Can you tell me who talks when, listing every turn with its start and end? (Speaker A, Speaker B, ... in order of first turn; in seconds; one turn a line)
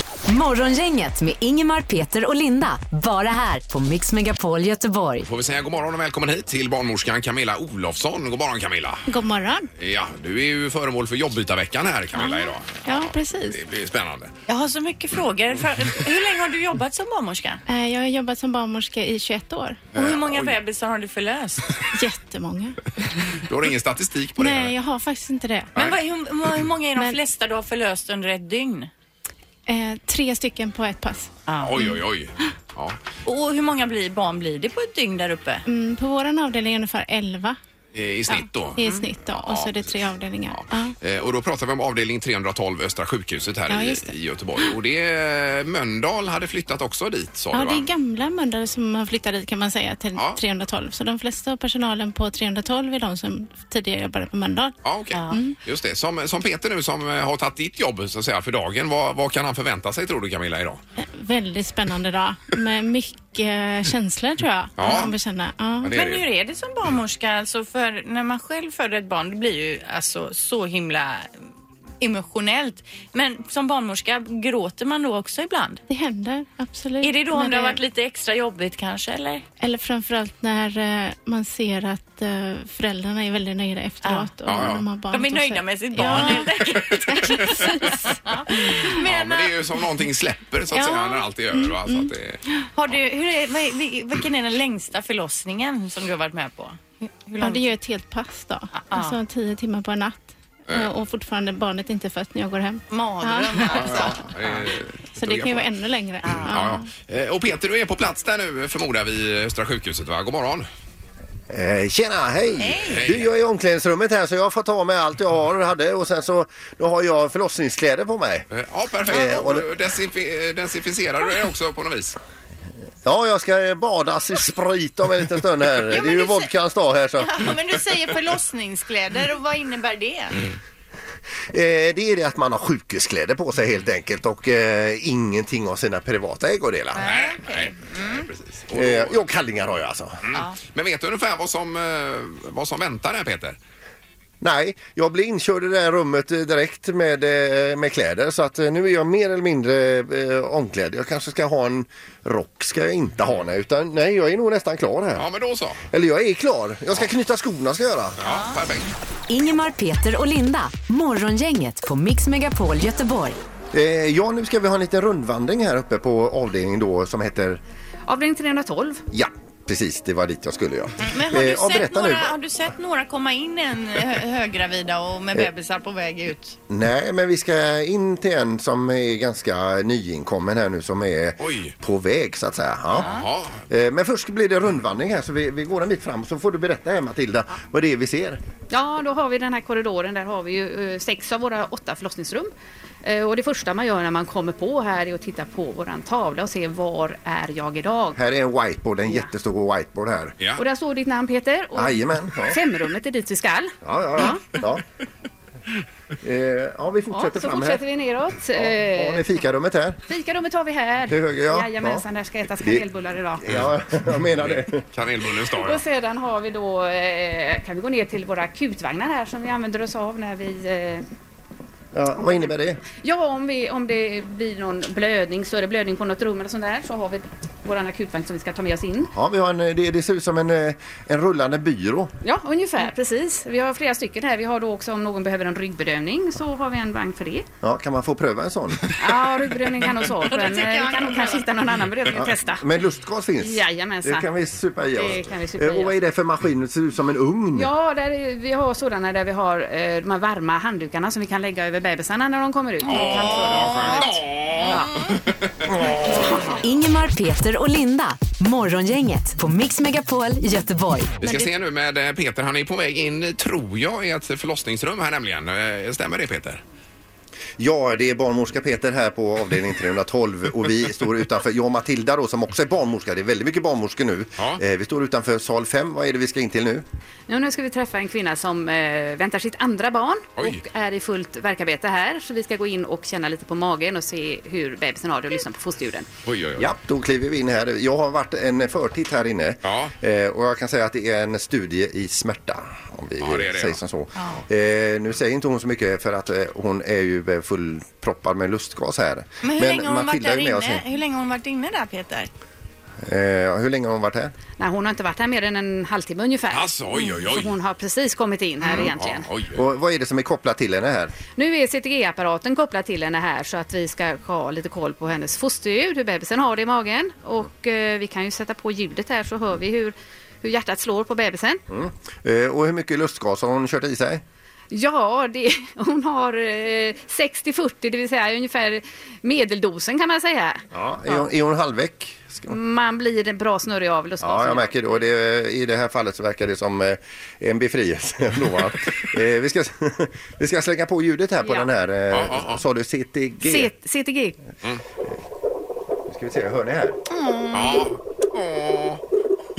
Speaker A: 0.3-5.3
Speaker B: 5.2-9.0
Speaker C: 9.1-9.7
Speaker B: 9.8-14.3
Speaker C: 12.2-13.6
Speaker D: 14.5-17.6
Speaker C: 17.7-19.8
Speaker B: 19.9-20.6
Speaker D: 19.9-21.7
Speaker C: 21.9-23.1
Speaker B: 23.4-24.7
Speaker C: 24.4-25.7
Speaker D: 25.8-28.9
Speaker C: 29.7-31.9
Speaker D: 31.5-31.8
Speaker B: 31.6-33.0
Speaker D: 33.2-35.6
Speaker C: 35.6-37.6
Speaker B: 37.9-39.9
Speaker C: 38.3-40.9
Speaker D: 38.8-39.0
Speaker B: 40.5-47.9
Speaker C: 43.7-44.1
Speaker C: 47.5-54.7
Speaker B: 54.8-60.8
Speaker D: 55.1-55.4
Speaker C: 55.3-55.5
Speaker C: 61.0-65.9
Speaker B: 64.8-65.1
Speaker D: 64.8-65.1
Speaker B: 65.8-66.2
Speaker D: 65.9-71.3
Speaker D: 72.0-75.8
Speaker C: 75.9-77.8
Speaker D: 77.0-79.4
Speaker C: 79.6-86.5
Speaker D: 84.0-84.3
Speaker B: 84.5-84.8
Speaker D: 85.1-89.6
Speaker B: 86.1-87.9
Speaker C: 87.0-88.0
Speaker C: 88.5-88.9
Speaker B: 89.0-92.4
Speaker C: 90.7-92.6
Speaker D: 92.8-97.7
Speaker C: 97.4-103.9
Speaker D: 98.8-99.2
Speaker D: 102.9-104.7
Speaker B: 103.6-105.7
Speaker C: 105.2-106.9
Speaker D: 106.2-106.6
Speaker B: 106.5-110.7
Speaker E: 111.5-118.5
Speaker D: 112.6-113.0
Speaker B: 112.9-113.3
Speaker B: 118.5-122.2
Speaker E: 119.1-119.7
Speaker E: 123.0-127.5
Speaker D: 125.9-126.5
Speaker D: 127.2-130.5
Speaker E: 131.5-137.1
Speaker D: 136.9-138.3
Speaker B: 136.9-139.2
Speaker E: 138.7-140.2
Speaker B: 140.2-143.6
Speaker E: 144.4-155.3
Speaker B: 155.2-155.8
Speaker E: 155.9-158.2
Speaker B: 158.2-158.9
Speaker D: 158.2-158.6
Speaker A: 159.3-163.4
Speaker E: 163.7-167.6
Speaker F: 168.1-169.0
Speaker E: 169.1-172.3
Speaker D: 171.0-176.6
Speaker E: 176.7-183.1
Speaker B: 181.4-181.7
Speaker B: 182.9-183.6
Speaker D: 183.0-183.3
Speaker E: 183.7-188.4
Speaker F: 188.7-192.5
Speaker F: 193.0-198.2
Speaker E: 198.2-200.3
Speaker F: 200.6-204.4
Speaker E: 201.8-202.6
Speaker E: 203.8-204.8
Speaker E: 206.2-207.8
Speaker F: 207.1-209.2
Speaker E: 208.6-210.0
Speaker F: 210.1-213.5
Speaker E: 211.1-212.0
Speaker E: 213.4-214.8
Speaker B: 214.3-215.8
Speaker F: 215.6-221.0
Speaker E: 221.9-222.8
Speaker F: 223.0-229.1
Speaker E: 229.1-232.1
Speaker F: 232.2-237.4
Speaker E: 237.6-238.8
Speaker F: 239.0-242.6
Speaker D: 240.2-241.5
Speaker E: 242.1-247.7
Speaker F: 243.4-244.2
Speaker F: 245.0-245.9
Speaker F: 247.5-254.9
Speaker D: 252.8-255.1
Speaker B: 252.8-255.5
Speaker E: 255.7-256.3
Speaker A: 256.6-261.1
Speaker B: 261.2-266.6
Speaker E: 267.6-276.8
Speaker F: 277.3-286.1
Speaker B: 286.2-286.7
Speaker E: 286.6-300.8
Speaker B: 289.6-289.9
Speaker B: 293.2-293.8
Speaker D: 294.2-294.4
Speaker D: 299.4-302.3
Speaker E: 303.0-304.3
Speaker F: 304.6-309.3
Speaker B: 306.5-307.5
Speaker D: 308.6-308.9
Speaker B: 308.8-309.6
Speaker E: 309.5-311.1
Speaker F: 311.3-321.6
Speaker E: 321.7-324.2
Speaker F: 324.7-331.2
Speaker E: 330.7-332.5
Speaker F: 332.5-334.7
Speaker E: 334.2-343.7
Speaker B: 342.1-342.6
Speaker F: 343.4-344.4
Speaker E: 346.1-347.0
Speaker D: 347.1-347.9
Speaker B: 347.5-349.0